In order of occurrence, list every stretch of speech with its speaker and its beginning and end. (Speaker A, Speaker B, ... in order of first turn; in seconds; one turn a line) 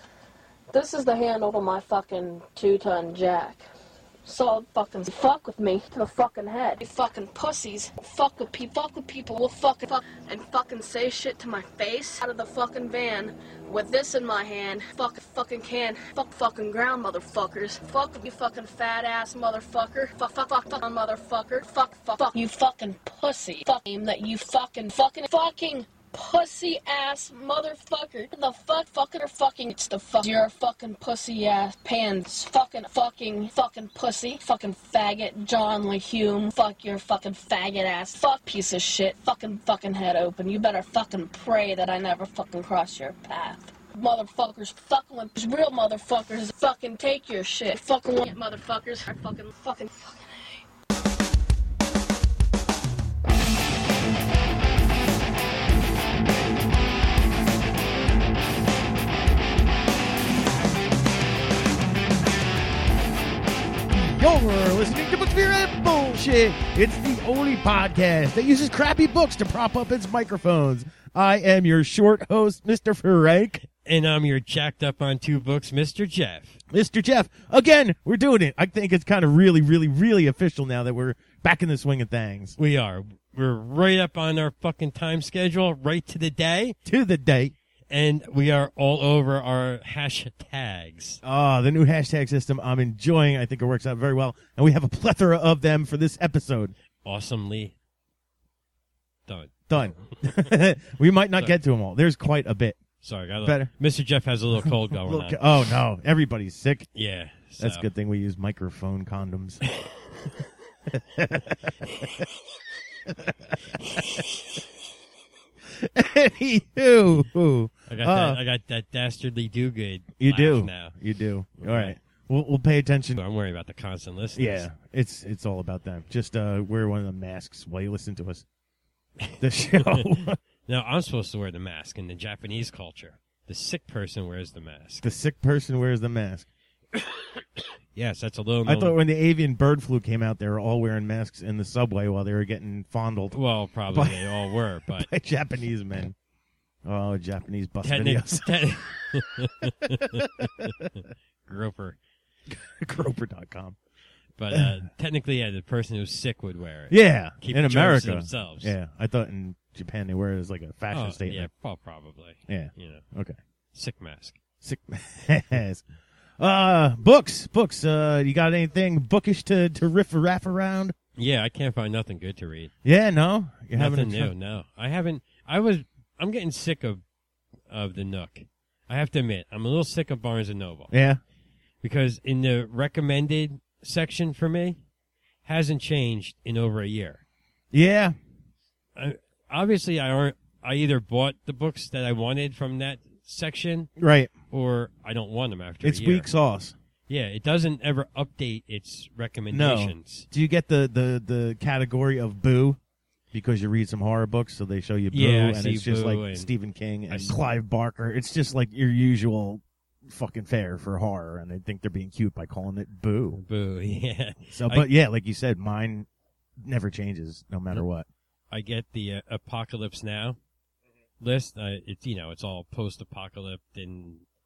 Speaker A: 0.7-3.6
Speaker A: 4.2-50.6
Speaker B: 63.9-73.7
Speaker C: 73.8-76.6
Speaker B: 76.7-82.5
Speaker C: 82.6-86.8
Speaker B: 86.8-87.5
Speaker C: 87.9-91.2
Speaker B: 91.2-96.7
Speaker C: 97.0-97.7
Speaker C: 99.3-99.9
Speaker B: 99.7-102.8
Speaker C: 103.0-105.4
Speaker B: 103.4-103.7
Speaker B: 104.9-106.9
Speaker C: 106.9-107.9
Speaker B: 107.6-109.6
Speaker B: 110.9-112.2
Speaker B: 113.1-114.2
Speaker B: 115.7-118.4
Speaker C: 117.9-120.9
Speaker B: 120.2-123.2
Speaker C: 121.6-122.0
Speaker C: 123.2-124.7
Speaker B: 124.3-128.4
Speaker B: 129.4-130.4
Speaker C: 129.8-135.0
Speaker B: 135.0-136.5
Speaker C: 137.9-139.0
Speaker B: 138.6-143.3
Speaker C: 143.3-145.1
Speaker B: 143.9-146.1
Speaker B: 146.8-150.9
Speaker C: 147.8-152.0
Speaker B: 152.5-153.8
Speaker C: 154.4-158.7
Speaker B: 154.5-154.8
Speaker B: 156.9-161.5
Speaker C: 160.9-163.0
Speaker B: 162.5-163.4
Speaker C: 163.7-164.4
Speaker B: 164.6-165.8
Speaker B: 166.4-170.9
Speaker C: 171.2-172.7
Speaker B: 172.8-174.3
Speaker C: 173.7-177.0
Speaker C: 177.7-180.9
Speaker B: 180.9-181.2
Speaker C: 181.8-184.8
Speaker C: 185.4-187.2
Speaker B: 187.7-188.1
Speaker C: 188.9-193.9
Speaker B: 194.0-194.3
Speaker C: 194.5-196.3
Speaker B: 195.8-196.7
Speaker C: 197.1-200.3
Speaker B: 199.5-202.8
Speaker B: 203.3-213.4
Speaker C: 205.1-206.5
Speaker C: 207.1-207.4
Speaker C: 213.3-214.9
Speaker B: 214.5-216.1
Speaker B: 216.6-218.1
Speaker C: 218.5-220.4
Speaker C: 221.2-224.2